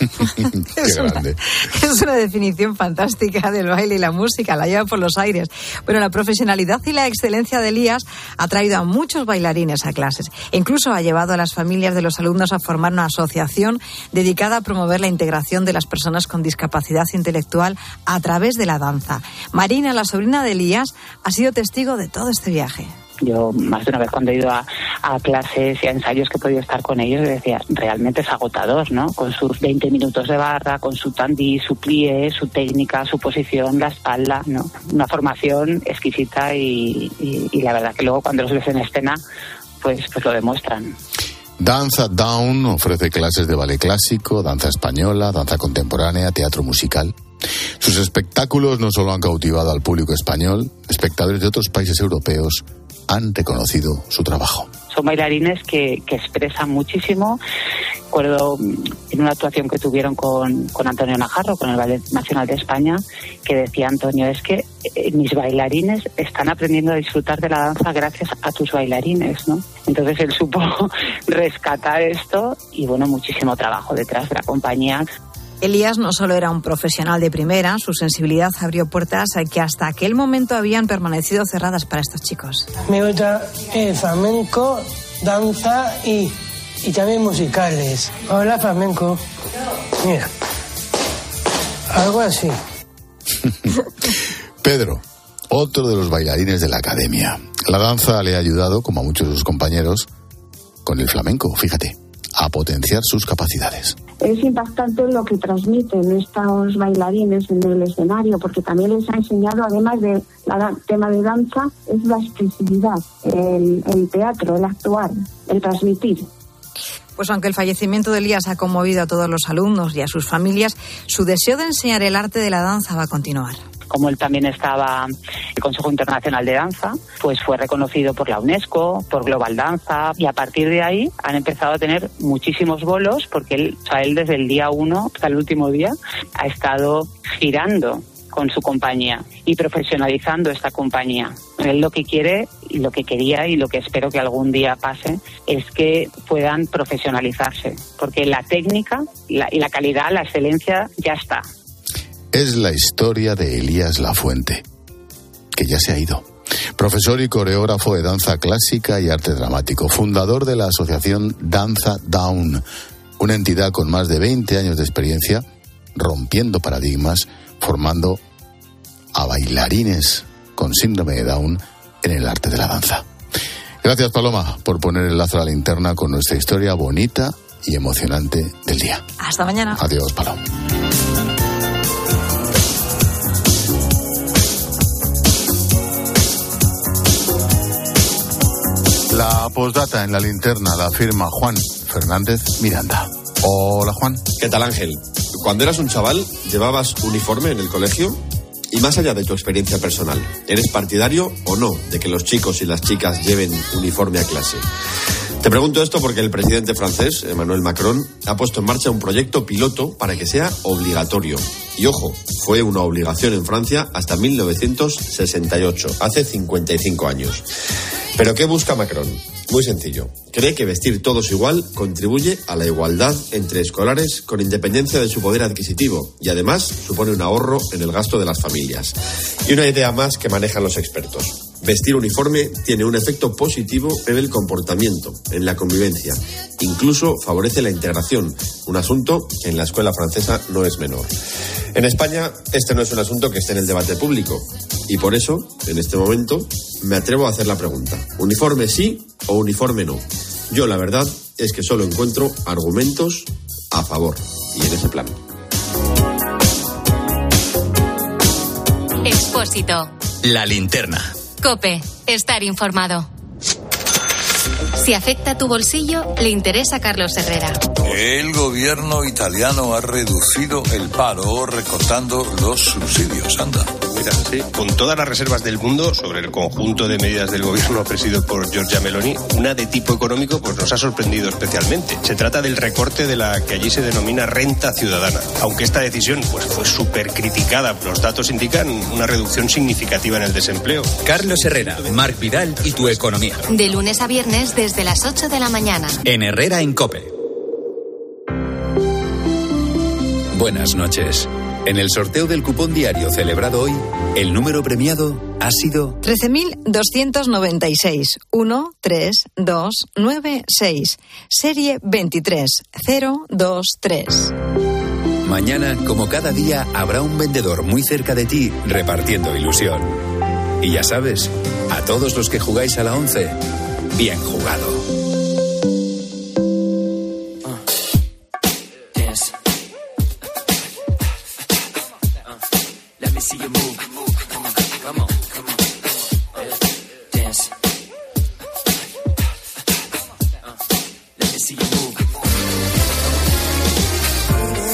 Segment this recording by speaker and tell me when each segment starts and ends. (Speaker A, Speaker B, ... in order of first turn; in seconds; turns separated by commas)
Speaker A: 0.2-1.4, Speaker B: 0.8-22.9, Speaker C: 23.2-39.2, Speaker C: 39.8-41.0, Speaker A: 41.6-47.1, Speaker A: 47.8-54.7, Speaker C: 54.9-57.4, Speaker C: 58.1-75.1, Speaker B: 75.6-82.7, Speaker D: 82.8-89.2, Speaker D: 90.0-90.3, Speaker D: 91.9-92.6, Speaker A: 93.5-93.7, Speaker A: 94.6-100.1, Speaker A: 100.8-104.0, Speaker E: 104.2-116.3, Speaker B: 117.2-123.6, Speaker C: 123.9-151.4, Speaker A: 152.3-154.6, Speaker A: 155.5-162.6, Speaker A: 163.2-165.4, Speaker A: 165.9-168.2, Speaker A: 169.2-173.1, Speaker A: 173.8-179.0, Speaker B: 179.2-179.8, Speaker A: 179.8-180.4, Speaker A: 189.1-194.2, Speaker F: 194.4-198.2, Speaker F: 198.7-204.6, Speaker F: 205.4-217.4, Speaker F: 218.2-241.1, Speaker F: 241.7-255.2, Speaker G: 259.0-259.9, Speaker H: 260.2-261.1, Speaker G: 261.4-263.1, Speaker G: 264.8-267.7, Speaker I: 267.9-273.6, Speaker J: 273.9-293.1, Speaker H: 291.0-293.4, Speaker G: 293.5-296.0, Speaker H: 296.0-297.1, Speaker H: 300.3-306.0, Speaker B: 306.0-314.3, Speaker H: 315.2-320.0, Speaker H: 320.6-323.4, Speaker H: 323.9-324.9